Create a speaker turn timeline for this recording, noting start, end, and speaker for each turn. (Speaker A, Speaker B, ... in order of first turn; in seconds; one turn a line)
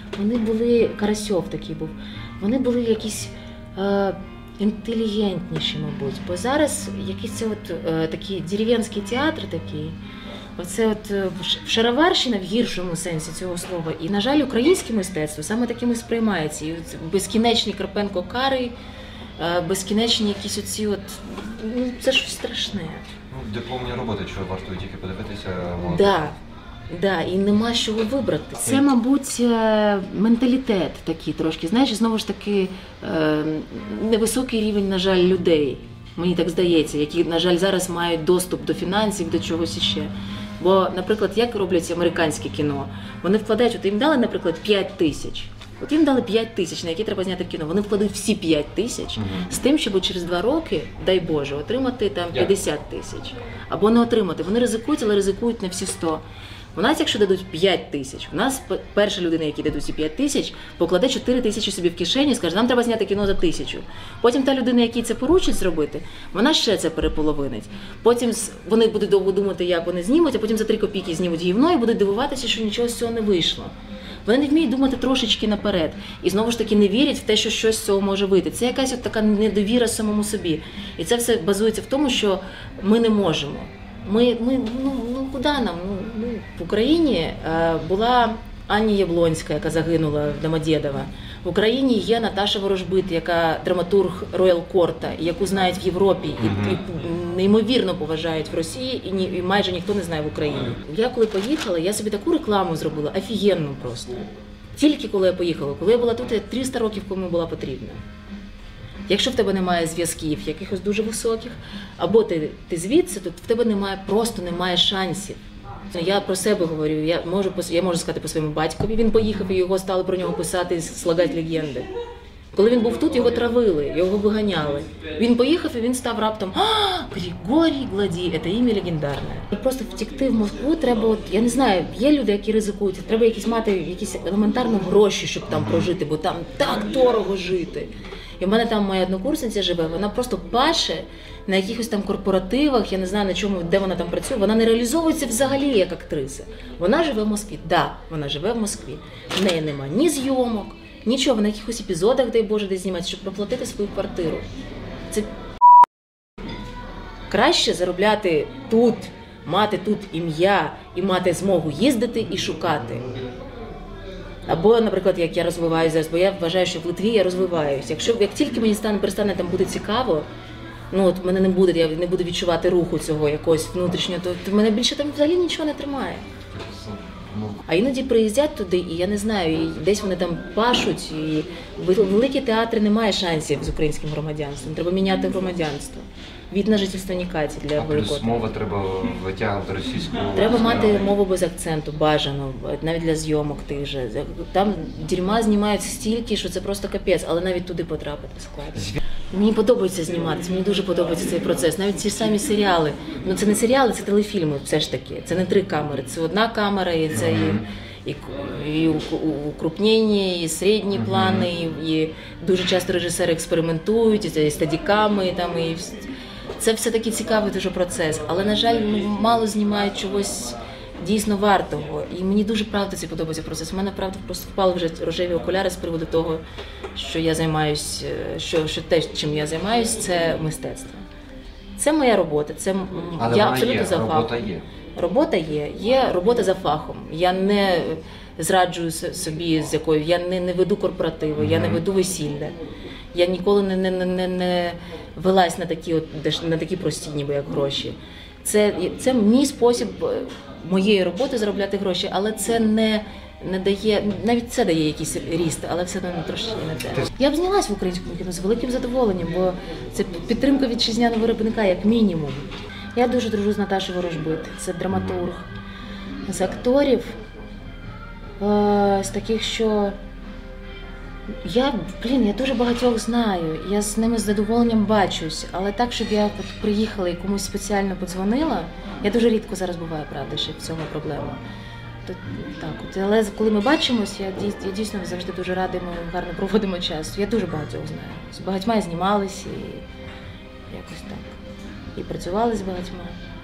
Speaker A: 0.1-10.0
Speaker A: 10.6-18.7
Speaker A: 19.4-23.0
Speaker B: 23.3-26.2
Speaker A: 25.8-26.4
Speaker A: 26.9-56.2
Speaker B: 49.2-49.5
Speaker A: 56.7-73.7
Speaker A: 74.2-104.2
Speaker B: 96.4-96.8
Speaker A: 104.8-108.0
Speaker A: 109.1-121.9
Speaker A: 122.5-154.4
Speaker A: 157.3-163.0
Speaker A: 164.4-170.3
Speaker A: 170.9-176.2
Speaker B: 176.5-177.6
Speaker A: 177.7-188.5
Speaker B: 187.8-191.1
Speaker A: 190.3-216.1
Speaker B: 207.3-207.6
Speaker B: 211.0-211.4
Speaker A: 216.6-226.4
Speaker A: 226.9-231.0
Speaker A: 231.8-234.3
Speaker B: 233.2-234.7
Speaker A: 234.9-242.5
Speaker B: 241.4-241.8
Speaker A: 243.1-265.5
Speaker A: 266.2-267.2
Speaker A: 268.4-269.9
Speaker A: 271.4-281.4
Speaker A: 282.1-289.8
Speaker A: 290.7-291.4
Speaker A: 291.9-293.2